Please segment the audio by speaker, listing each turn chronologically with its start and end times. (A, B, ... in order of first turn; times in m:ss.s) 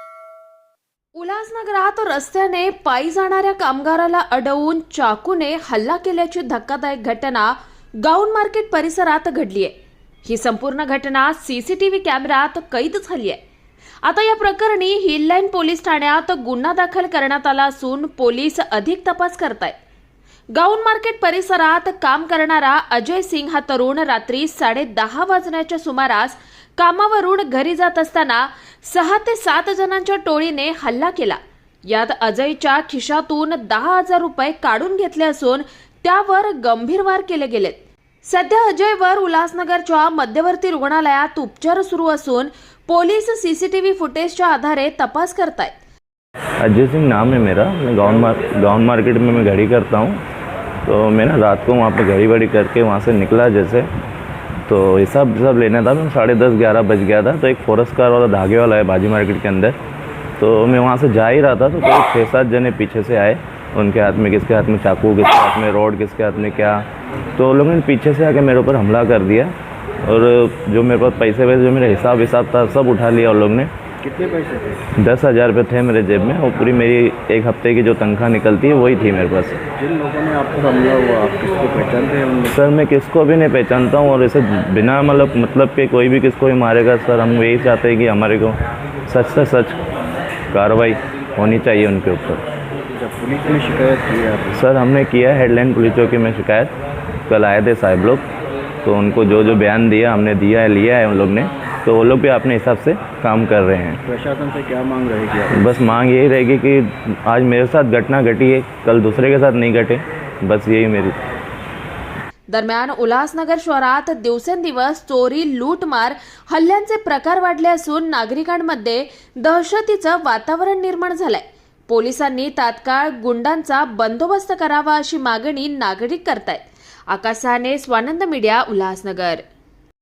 0:01.2-0:07.5 A
0:08.0-0:09.7 A
0:10.2-0:13.4 A
0:14.0-0:19.8 A
0:20.6-0:45.7 A
0:46.6-0:50.2 B
0:50.8-0:53.9 B
0:54.7-0:59.8 B
1:00.4-1:06.8 B
1:07.4-1:09.5 B
1:10.0-1:13.7 B
1:14.0-1:14.8 C
1:15.0-1:19.6 B
1:19.8-1:22.5 C
1:22.5-1:29.8 B
1:30.5-1:32.4 B
1:32.9-1:34.6 C
1:34.5-1:36.7 B
1:37.3-1:38.2 B
1:38.8-1:44.0 B
1:44.0-1:45.7 C
1:45.5-1:51.2 B
1:52.5-2:09.4 A